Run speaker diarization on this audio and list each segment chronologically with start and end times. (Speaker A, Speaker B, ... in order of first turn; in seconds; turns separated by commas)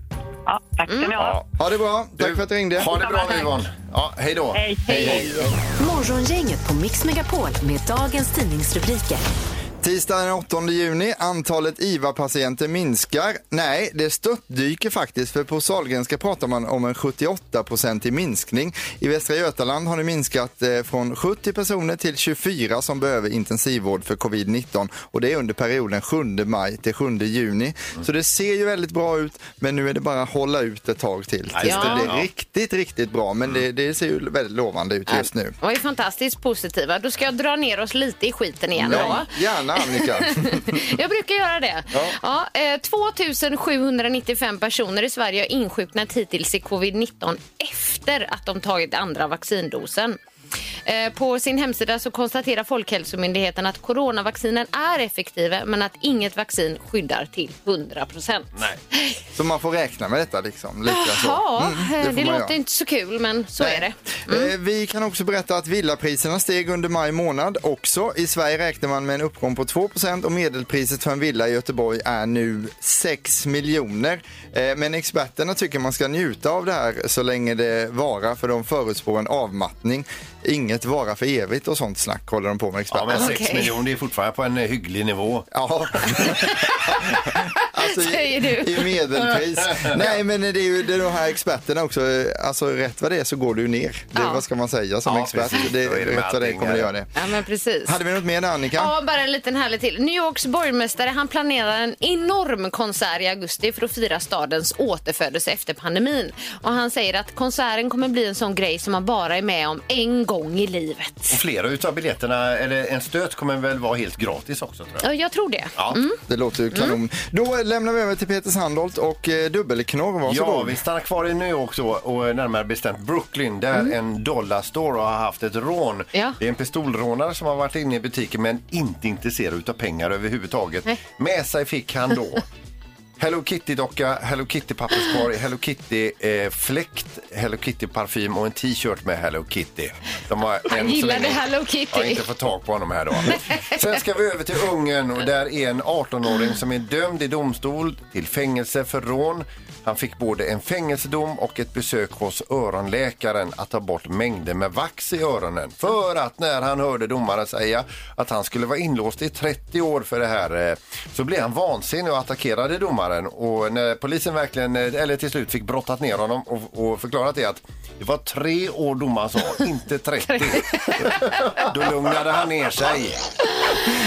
Speaker A: 0.5-1.4, Speaker B: 0.9-1.1, Speaker C: 1.1-1.4, Speaker D: 1.6-2.9, Speaker C: 2.2-5.5, Speaker A: 2.9-3.5, Speaker A: 4.5-5.5, Speaker B: 4.9-5.2, Speaker E: 5.8-9.2, Speaker D: 9.8-35.5, Speaker C: 31.5-32.3, Speaker B: 31.6-32.1, Speaker B: 35.1-50.2, Speaker C: 38.8-39.2, Speaker D: 38.9-40.8, Speaker B: 50.9-59.2, Speaker D: 59.4-62.5, Speaker B: 60.9-64.5, Speaker D: 63.6-83.3, Speaker C: 82.9-85.5, Speaker B: 83.1-83.7, Speaker D: 85.5-97.1, Speaker B: 86.2-89.0, Speaker C: 89.6-90.0, Speaker B: 94.1-94.4, Speaker C: 95.0-96.9, Speaker B: 97.2-98.0, Speaker D: 97.9-98.9, Speaker B: 98.7-111.4, Speaker C: 111.3-115.1, Speaker B: 115.0-116.2, Speaker D: 116.3-120.8, Speaker B: 116.7-117.0, Speaker C: 120.3-132.4, Speaker C: 133.2-173.2, Speaker B: 140.7-142.2, Speaker B: 143.3-143.8, Speaker B: 170.5-171.6